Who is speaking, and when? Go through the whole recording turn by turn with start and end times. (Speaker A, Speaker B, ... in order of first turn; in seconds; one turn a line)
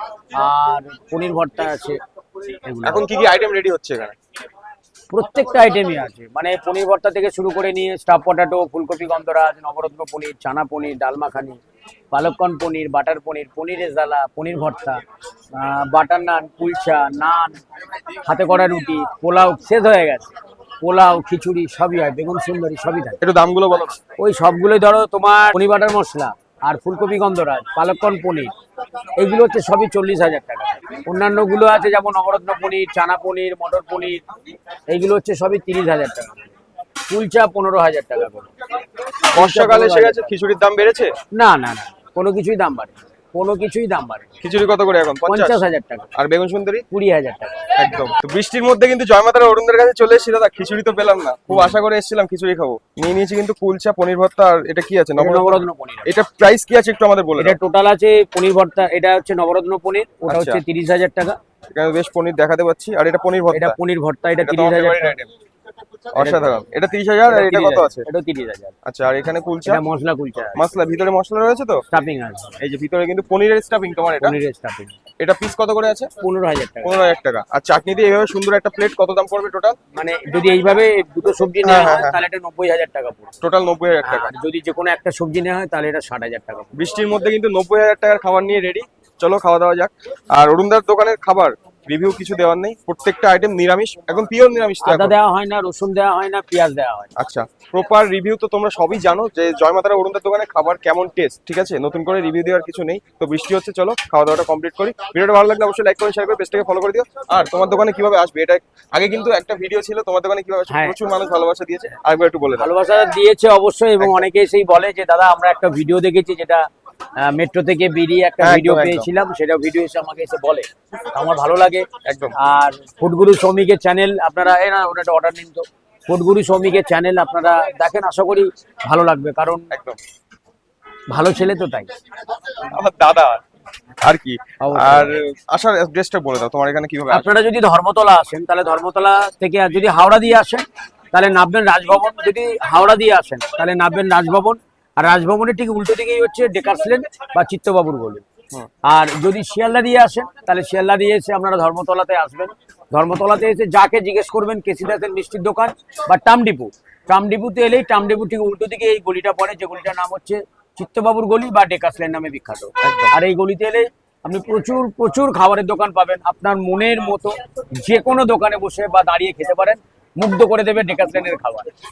Speaker A: 0.3-2.0
Speaker A: 2.6-3.1
Speaker B: 2.8-4.1
Speaker A: 5.1-11.6
Speaker A: 12.1-15.0
Speaker A: 15.5-17.6
Speaker A: 18.2-23.2
Speaker B: 23.2-24.0
Speaker A: 24.2-28.5
Speaker A: 29.2-34.2
Speaker A: 34.9-36.5
Speaker A: 37.1-38.5
Speaker A: 39.3-40.3
Speaker B: 39.3-41.1
Speaker A: 41.3-44.3
Speaker B: 44.4-45.6
Speaker A: 45.2-46.1
Speaker B: 46.1-46.9
Speaker A: 46.9-47.6
Speaker B: 47.8-57.6
Speaker A: 55.2-56.1
Speaker A: 57.4-61.4
Speaker B: 60.3-60.6
Speaker B: 61.7-63.8
Speaker A: 63.5-65.2
Speaker B: 64.4-65.3
Speaker B: 66.1-68.0
Speaker A: 66.1-66.6
Speaker A: 67.3-68.7
Speaker B: 68.8-69.8
Speaker A: 69.6-70.7
Speaker B: 70.5-71.8
Speaker A: 71.9-72.6
Speaker B: 72.6-74.3
Speaker A: 74.2-74.9
Speaker B: 75.2-76.1
Speaker A: 76.2-77.0
Speaker B: 76.8-79.8
Speaker A: 79.9-83.3
Speaker B: 81.6-82.2
Speaker B: 83.4-84.3
Speaker A: 84.0-86.7
Speaker B: 86.7-95.1
Speaker A: 94.8-97.1
Speaker B: 97.2-112.7
Speaker A: 110.7-111.0
Speaker A: 112.5-116.7
Speaker A: 117.2-129.7
Speaker B: 118.4-119.1
Speaker B: 122.0-122.3
Speaker B: 129.7-130.0
Speaker A: 131.1-131.9
Speaker B: 132.7-133.4
Speaker B: 134.0-137.3
Speaker A: 134.6-135.2
Speaker A: 137.1-148.2
Speaker A: 148.8-171.7
Speaker B: 162.8-163.1